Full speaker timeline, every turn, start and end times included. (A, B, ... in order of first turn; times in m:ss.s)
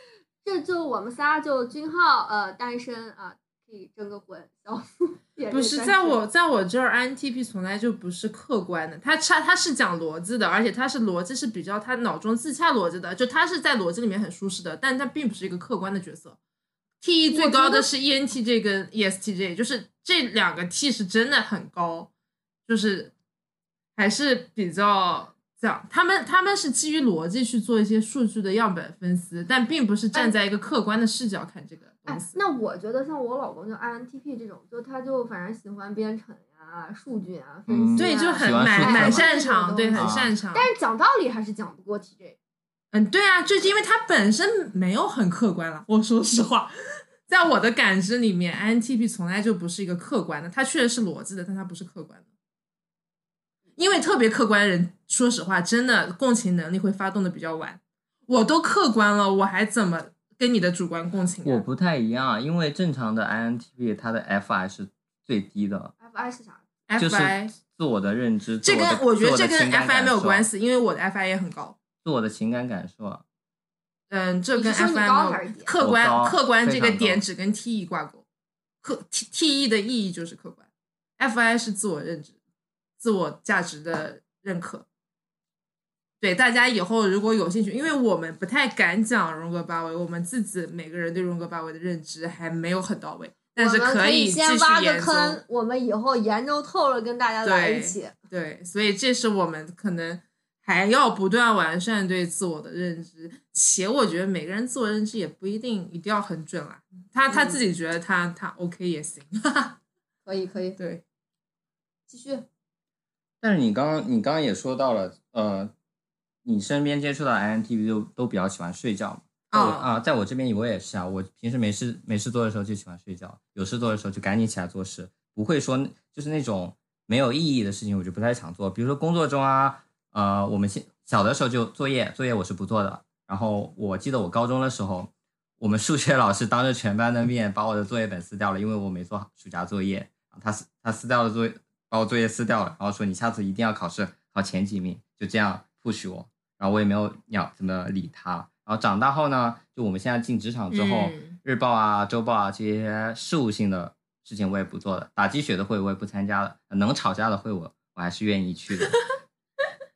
0:00.4-0:06.2 A
0:05.5-0:16.4 B
0:17.0-0:22.1 B
0:17.3-0:17.9 A
0:22.7-0:23.1 B
0:24.0-0:32.4 B
0:32.1-0:42.4 A
0:37.7-0:39.2 C
0:38.0-0:40.7 B
0:39.9-0:40.3 C
0:42.9-0:46.7 B
0:47.3-0:52.2 B
0:53.8-1:01.6 B
1:01.4-1:05.9 C
1:06.0-1:06.6 A
1:06.9-1:07.5 B
1:07.0-1:10.5 C
1:08.6-1:11.8 B
1:12.0-1:13.2 C
1:14.1-1:18.2 B
1:14.5-1:15.7 A
1:15.8-1:17.2 C
1:18.8-1:20.7 B
1:21.2-1:22.3 B
1:23.0-1:24.8 B
1:26.2-1:35.4 B
1:33.6-1:38.1 A
1:37.4-1:49.8 B
1:47.3-1:47.6 A
1:50.2-1:50.8 A
1:50.8-1:51.0 B
1:52.1-1:52.4 A
1:53.4-1:55.7 C
1:56.4-2:39.0 C
1:59.5-1:59.9 B
2:30.7-2:31.4 B